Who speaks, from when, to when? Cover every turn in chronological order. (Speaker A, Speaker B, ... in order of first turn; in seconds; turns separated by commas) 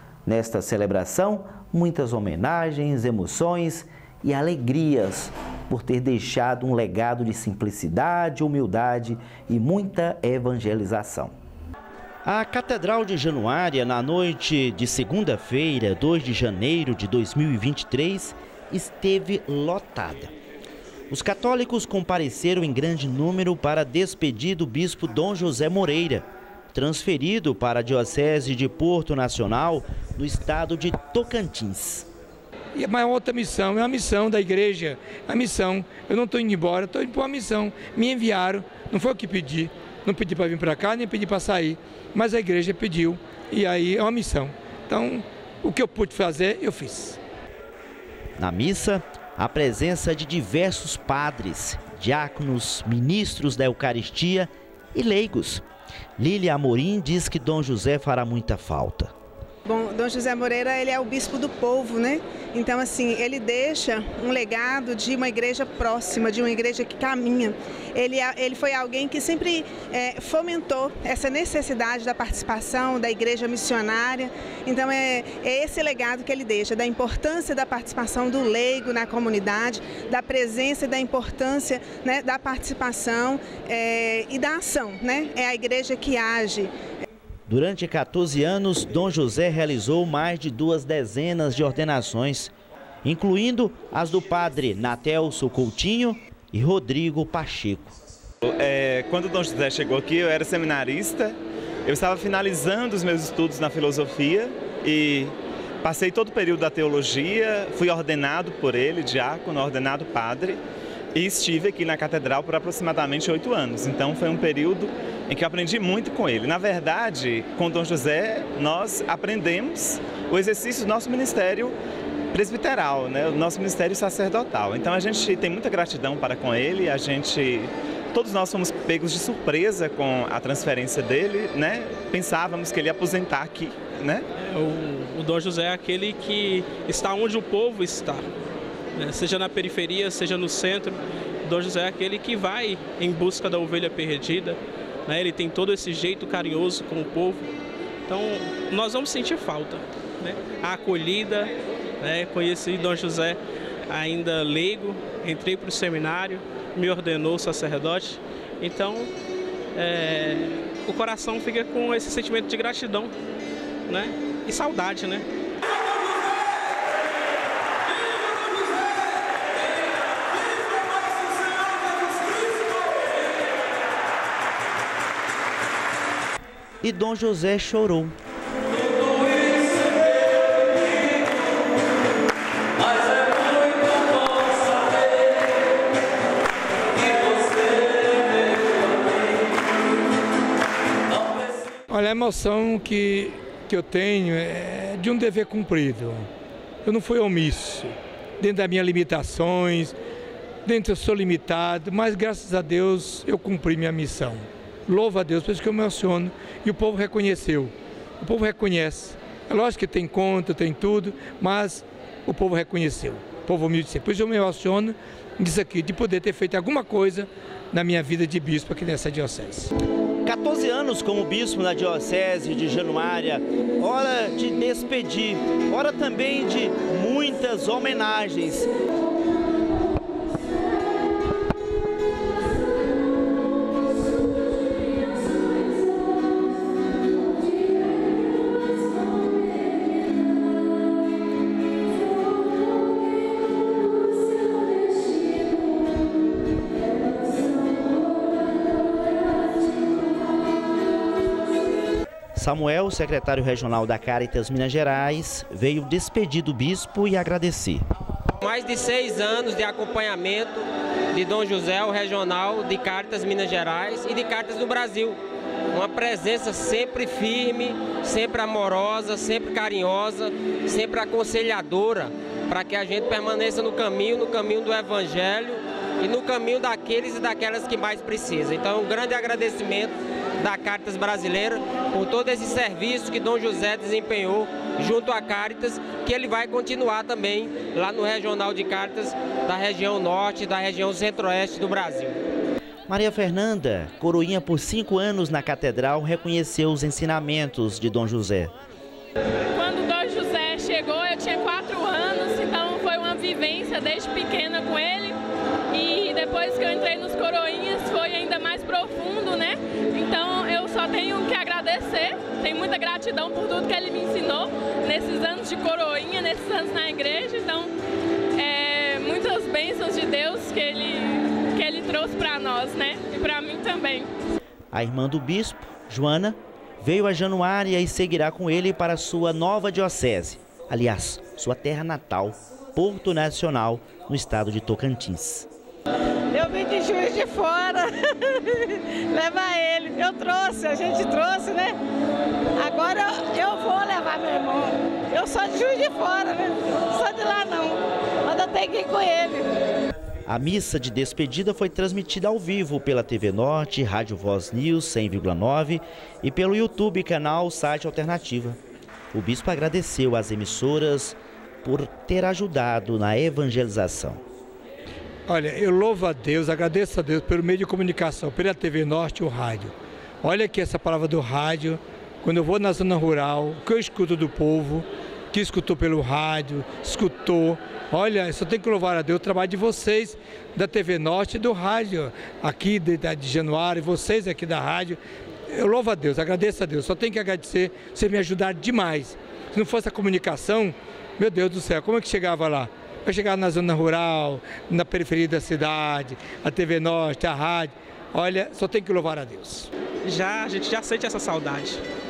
Speaker A: 0.3-11.3, Speaker A: 12.2-20.3, Speaker A: 21.1-32.1, Speaker B: 32.8-47.2, Speaker A: 48.4-55.6, Speaker A: 56.2-59.1, Speaker C: 59.7-86.7, Speaker A: 87.5-92.5, Speaker A: 93.0-97.9, Speaker D: 98.4-110.6, Speaker D: 111.2-121.8, Speaker D: 122.3-134.2, Speaker E: 134.4-138.3, Speaker E: 139.0-147.5, Speaker E: 148.1-153.4, Speaker E: 153.9-159.1, Speaker E: 159.8-163.1, Speaker E: 163.9-165.3, Speaker A: 176.8-178.2, Speaker B: 191.9-196.3, Speaker B: 196.8-200.0, Speaker B: 200.7-219.7, Speaker A: 220.2-228.7, Speaker A: 252.3-257.9, Speaker F: 258.4-265.1, Speaker F: 265.7-292.2, Speaker A: 292.9-298.5, Speaker G: 299.6-305.2, Speaker G: 305.7-317.7, Speaker G: 318.4-324.1, Speaker A: 324.7-335.5, Speaker H: 336.3-341.8, Speaker H: 342.6-349.5, Speaker A: 350.3-358.6, Speaker A: 359.1-364.2, Speaker B: 365.3-399.7, Speaker E: 400.1-401.8